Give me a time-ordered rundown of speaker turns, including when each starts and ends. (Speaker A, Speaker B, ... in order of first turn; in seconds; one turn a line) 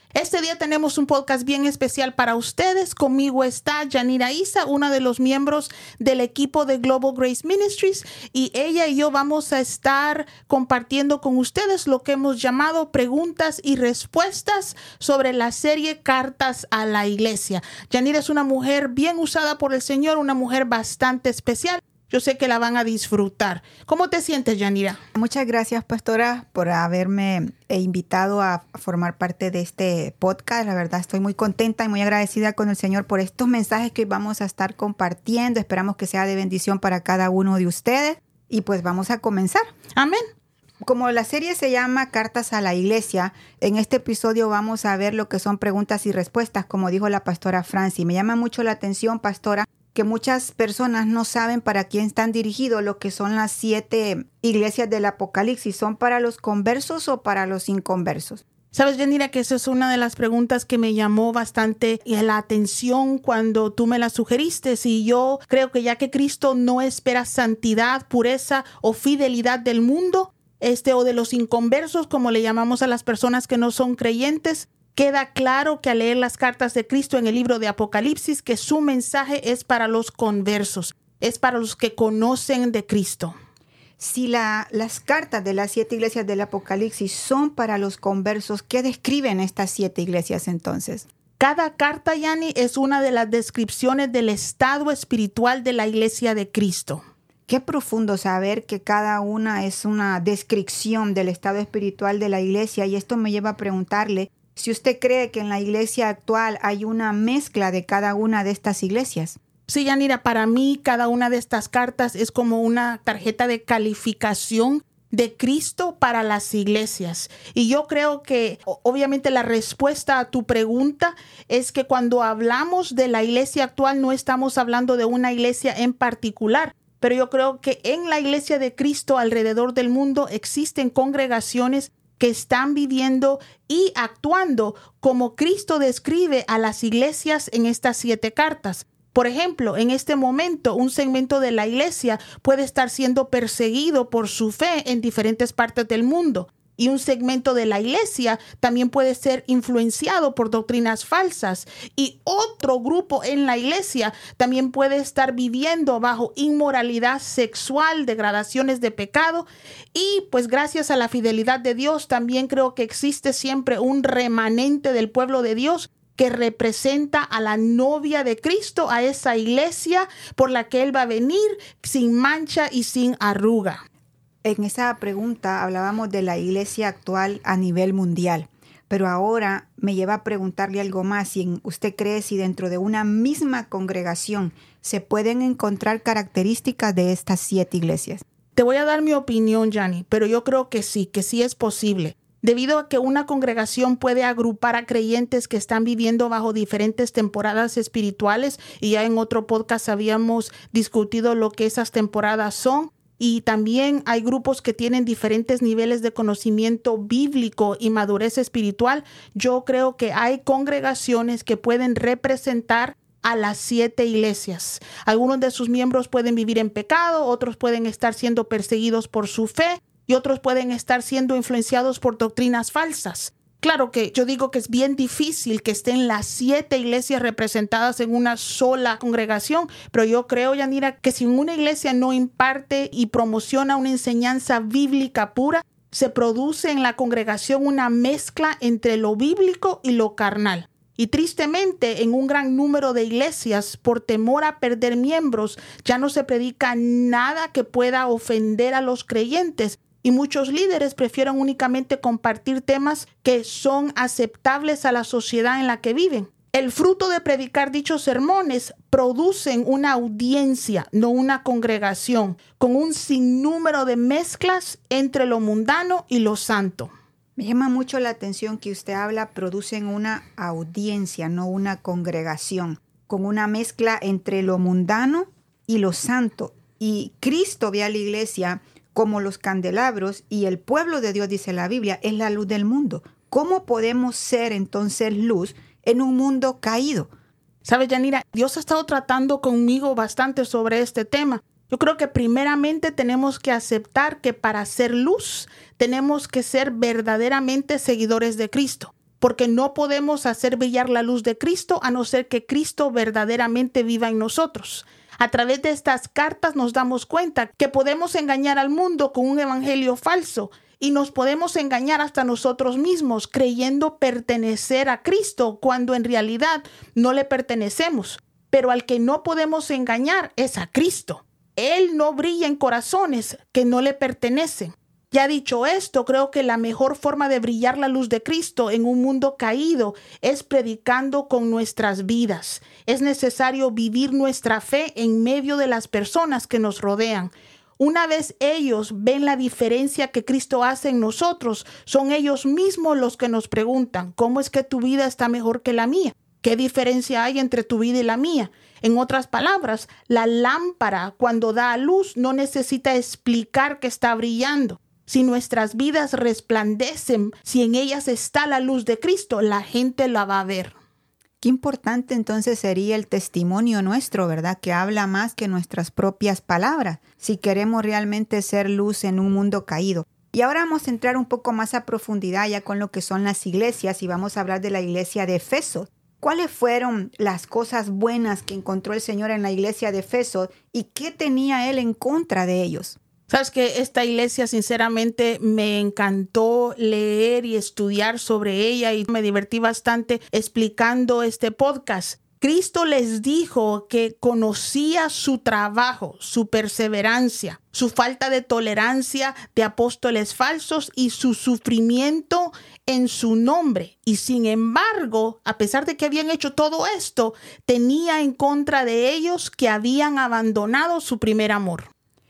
Speaker A: 0.1-25.0
Speaker B: 25.1-39.6
Speaker A: 40.0-40.2
Speaker B: 40.8-58.4
Speaker A: 58.7-83.3
Speaker B: 84.0-91.1
Speaker A: 91.4-97.0
Speaker B: 97.5-109.4
Speaker A: 109.7-173.8
Speaker B: 174.4-188.2
Speaker A: 188.6-266.9
Speaker B: 267.4-287.1
Speaker A: 287.6-360.8
Speaker B: 361.4-383.0
Speaker A: 383.3-411.9